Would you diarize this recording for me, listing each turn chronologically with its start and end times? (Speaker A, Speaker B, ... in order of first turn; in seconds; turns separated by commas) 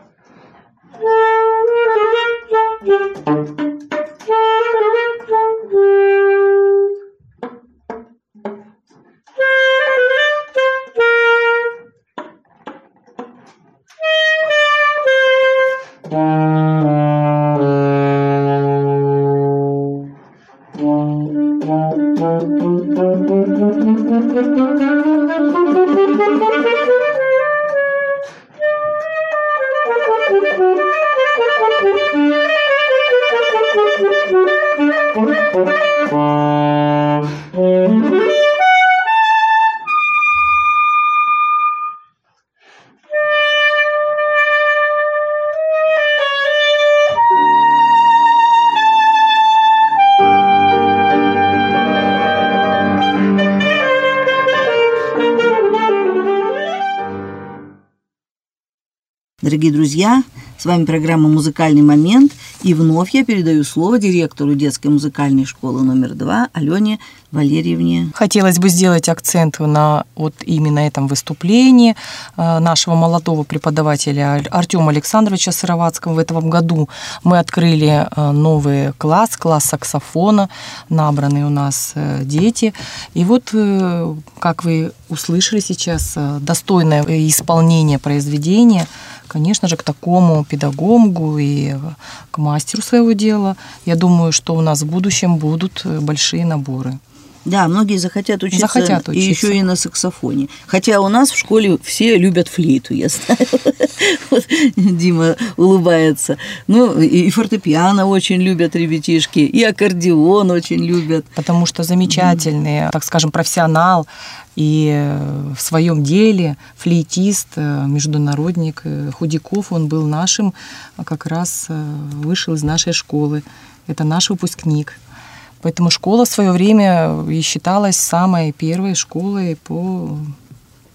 Speaker A: 59.4-68.1, Speaker B: 68.1-97.0, Speaker A: 97.4-111.3, Speaker B: 98.5-99.6, Speaker B: 111.3-125.0, Speaker A: 112.1-112.4, Speaker B: 125.6-130.3